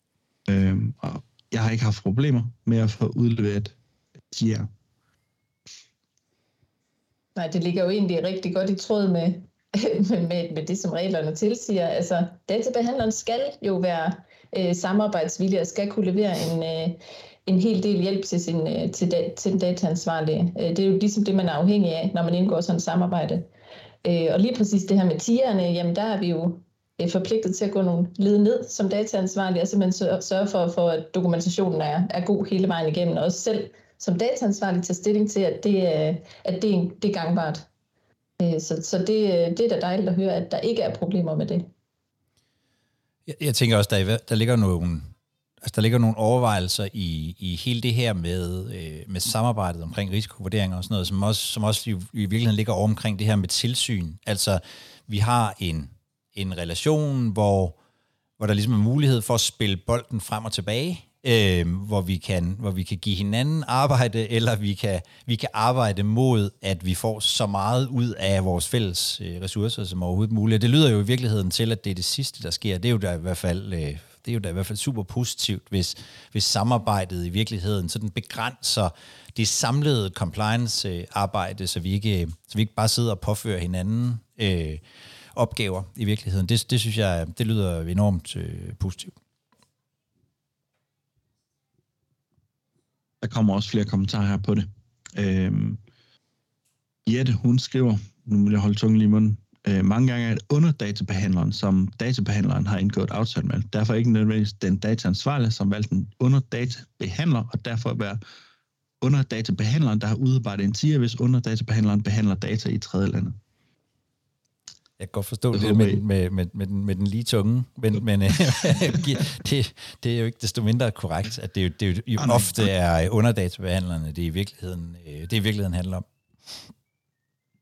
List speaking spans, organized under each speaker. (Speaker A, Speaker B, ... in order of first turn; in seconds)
Speaker A: 0.5-3.8, 4.3-4.7, 93.2-95.8, 97.0-108.2, 109.0-113.4, 115.5-116.0, 122.2-122.5
Speaker B: 7.3-23.5, 24.0-37.7, 38.4-41.7
Speaker C: 43.3-57.8, 58.4-84.8, 85.3-89.1, 115.0-126.0